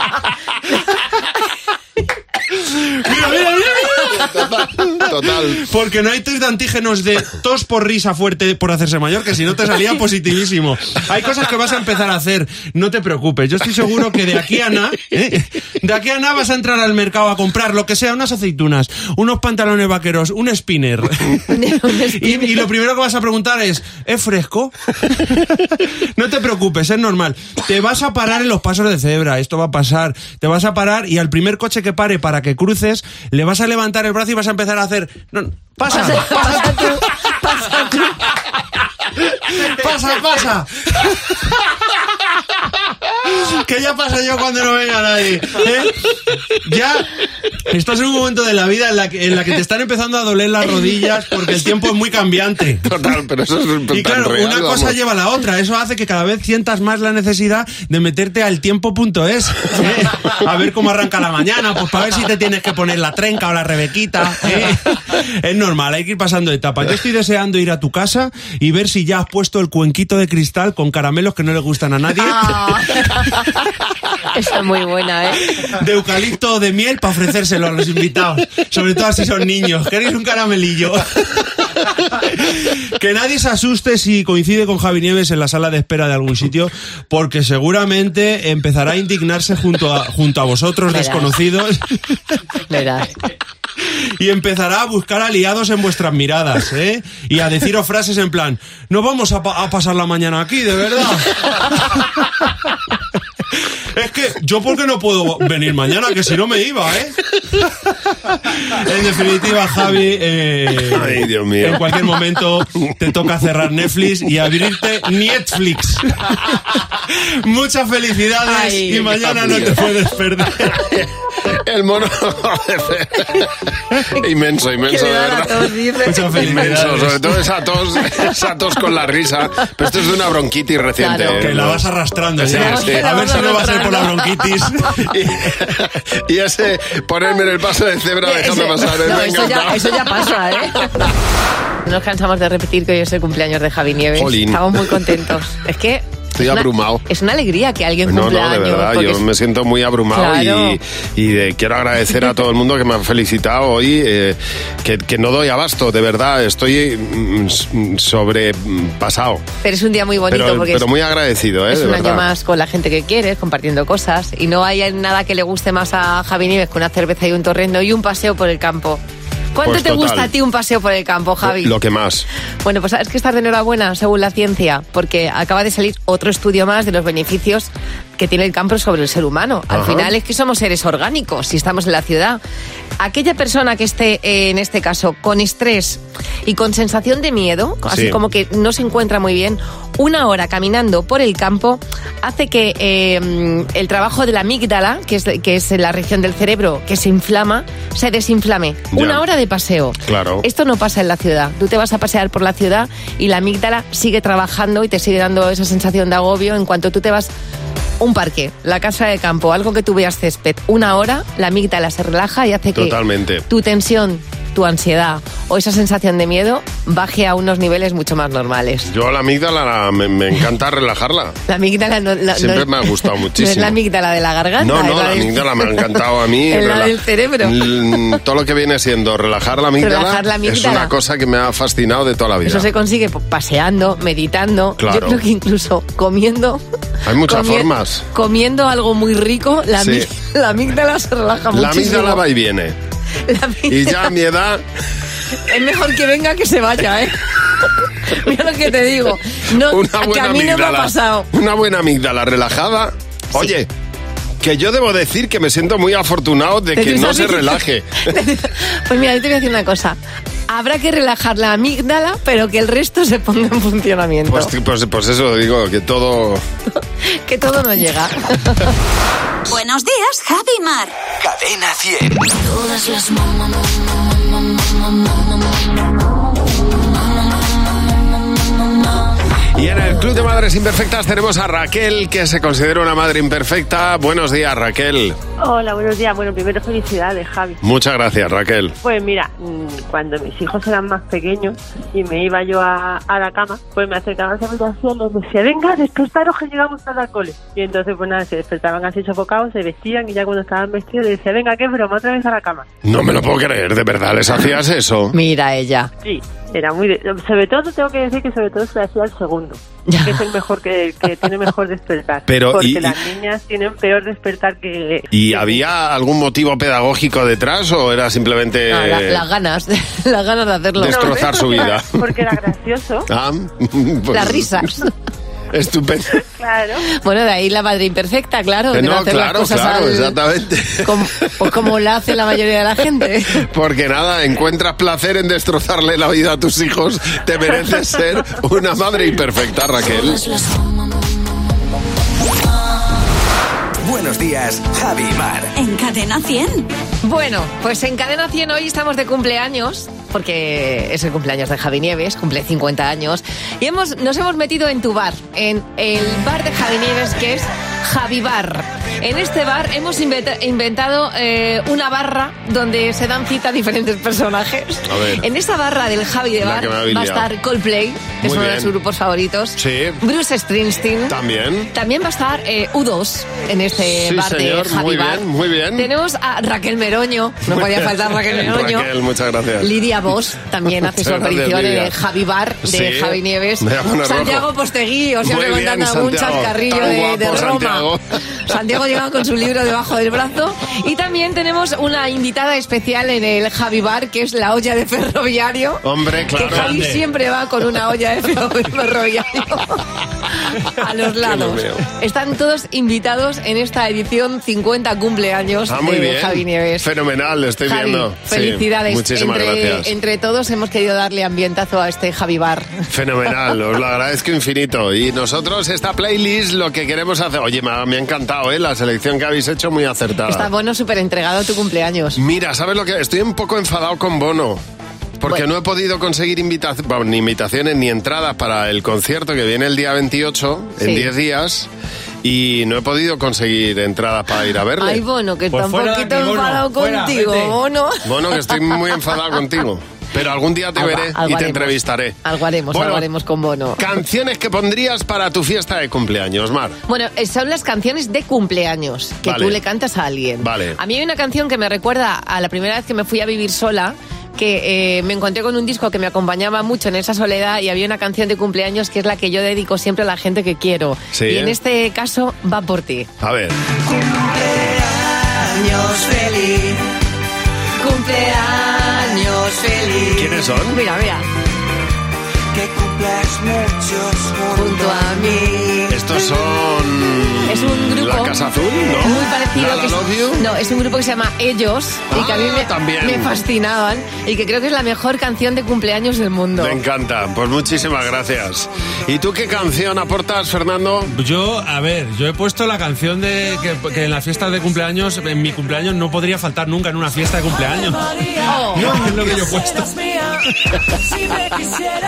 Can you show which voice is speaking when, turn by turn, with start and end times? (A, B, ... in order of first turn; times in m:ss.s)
0:02.5-0:04.2 A
0:04.1-0:05.6 B
0:05.5-0:21.5 A
0:21.5-0:22.7 C
0:22.2-0:37.1 A
0:35.9-0:38.2 C
0:39.5-0:41.4 A
0:43.3-0:46.1 A
0:46.6-0:47.1 A
0:47.7-0:52.8 A
0:52.8-0:55.0 B
0:53.9-1:13.0 A
1:12.2-1:13.5 C
1:14.3-1:15.5 C
1:15.6-1:21.5 A
1:22.2-1:32.0 A
1:30.9-1:31.3 C
1:32.7-1:33.1 C
1:34.2-1:42.1 A
1:44.0-1:47.6 A
1:48.3-1:56.4 A
1:50.9-1:52.2 B
1:57.0-2:00.9 A
1:58.5-1:59.2 C
1:59.2-1:59.9 B
2:00.7-2:03.5 B
2:04.1-2:05.8 B
2:04.9-2:06.5 C
2:06.0-2:07.4 A
2:06.3-2:13.1 B
2:11.0-2:11.5 C
2:11.4-2:15.1 A
2:12.5-2:14.3 C
2:15.0-2:19.9 B
2:18.2-2:20.9 C
2:21.8-2:29.2 C
2:24.1-2:25.2 B
2:26.4-2:27.0 B
2:28.1-2:39.4 B
2:30.1-2:30.8 C
2:39.6-2:40.9 C
2:40.3-2:42.3 B
2:41.7-2:49.0 C
2:49.6-2:51.7 C
2:49.6-2:50.3 B
2:51.4-2:52.3 B
2:52.6-3:02.4 C
2:59.7-3:00.1 B
3:03.0-3:27.3 C
3:07.9-3:08.2 B
3:18.9-3:19.2 B
3:20.0-3:20.4 B
3:28.0-3:33.0 C
3:32.7-3:33.4 B
3:33.5-3:38.9 C
3:38.9-3:41.4 B
3:41.5-3:45.9 C
3:42.4-3:43.8 B
3:44.6-3:52.7 B
3:46.5-3:48.1 C
3:49.8-3:50.9 C
3:52.5-3:56.6 C
3:54.8-3:55.2 B
3:57.0-3:58.1 B
3:57.2-4:02.2 C
3:59.8-4:00.1 B
4:01.5-4:02.8 B
4:03.2-4:04.1 C
4:03.7-4:04.6 B
4:05.5-4:11.3 C
4:09.6-4:13.7 B
4:14.4-4:17.9 B
4:16.8-4:20.0 C
4:20.5-4:24.5 C
4:24.3-4:26.4 B
4:27.2-4:28.7 C
4:29.5-4:30.9 D
4:31.2-4:32.3 E
4:39.6-4:45.2 B
4:45.4-4:47.6 F
4:47.6-4:48.8 B
4:48.8-5:02.7 F
5:02.8-5:05.2 B
5:05.1-5:05.9 C
5:06.0-5:15.6 F
5:09.9-5:10.2 C
5:12.3-5:13.0 B
5:15.1-5:19.2 B
5:18.7-5:21.2 C
5:20.8-5:22.2 B
5:20.8-5:23.1 F
5:23.1-5:24.7 B
5:24.1-5:24.9 C
5:25.5-5:26.2 B
5:26.4-5:26.8 F
5:27.0-5:30.2 C
5:28.7-5:31.3 B
5:30.8-5:33.4 C
5:33.3-5:40.4 B
5:43.8-5:45.5 E
5:45.6-5:46.7 D
5:47.0-6:11.2 C
6:04.9-6:05.2 B
6:06.4-6:07.3 B
6:08.2-6:08.7 B
6:09.6-6:10.0 B
6:11.1-6:11.7 B
6:11.7-6:15.2 C
6:13.8-6:15.9 B
6:15.8-6:18.9 C
6:17.5-6:19.7 B
6:19.6-6:35.8 C
6:20.8-6:22.0 B
6:22.6-6:24.5 B
6:25.2-6:28.0 B
6:35.8-6:36.9 B
6:36.4-6:39.8 C
6:36.5-6:37.0 A
6:40.5-6:46.9 C
6:41.2-6:41.8 B
6:45.7-6:49.9 B
6:47.7-6:52.8 C
6:52.9-7:00.5 B
7:00.3-7:02.2 C
7:02.2-7:04.6 B
7:05.2-7:11.7 B
7:10.8-7:11.1 C
7:12.2-7:15.0 B
7:14.8-7:18.0 C
7:15.5-7:17.3 A
7:18.0-7:22.2 B
7:20.8-7:23.8 C
7:22.7-7:23.1 B
7:23.8-7:26.8 B
7:26.9-7:43.1 C
7:29.2-7:29.6 B
7:30.4-7:30.8 B
7:41.1-7:41.6 B
7:43.2-7:43.6 B
7:43.9-7:46.8 C
7:47.8-7:51.2 C
7:50.1-7:50.8 B
7:54.5-7:55.9 C
7:55.9-8:00.4 B
7:57.5-7:58.4 C
7:59.0-8:06.8 C
8:02.1-8:03.4 B
8:06.6-8:11.1 B
8:11.1-8:19.9 A
8:18.5-8:18.9 C